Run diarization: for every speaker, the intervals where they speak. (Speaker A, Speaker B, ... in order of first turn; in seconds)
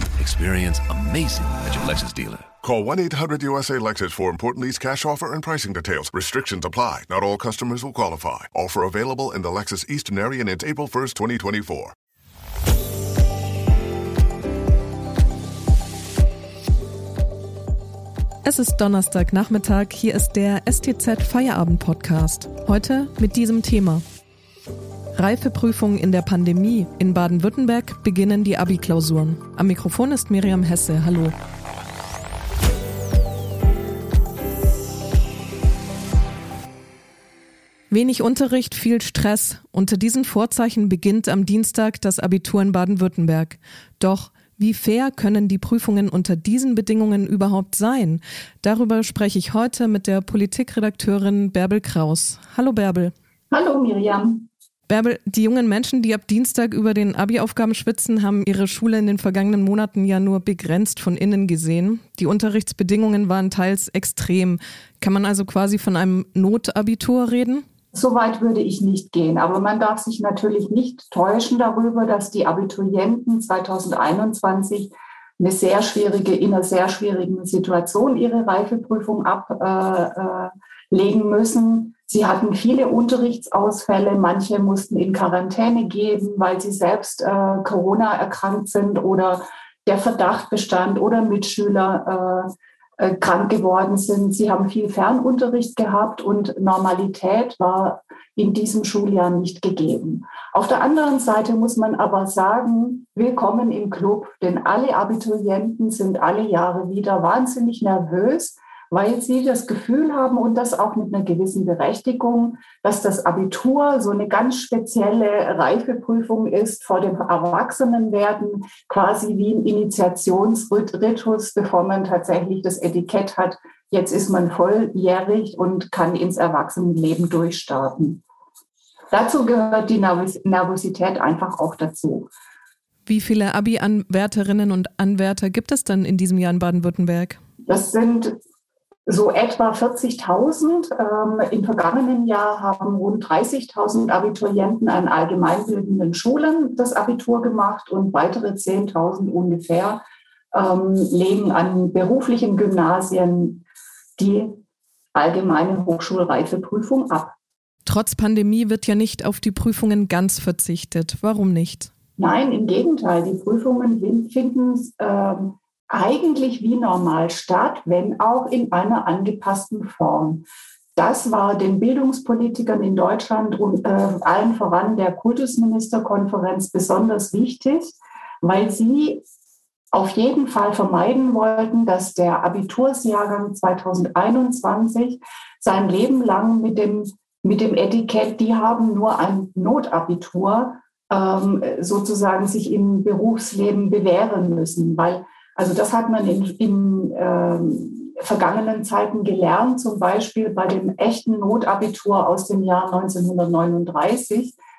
Speaker A: 0.2-2.5
Speaker B: 2.6-11.9
Speaker C: 18.4-24.0, 25.2-31.4, 37.9-53.1, 54.9-67.6, 133.1-137.4, 157.9-161.9
Speaker D: 53.5-54.5, 67.9-128.2, 129.1-132.3, 137.7-138.4, 139.1-153.6, 154.2-154.6, 155.1-157.3, 162.2-179.2, 179.9-204.6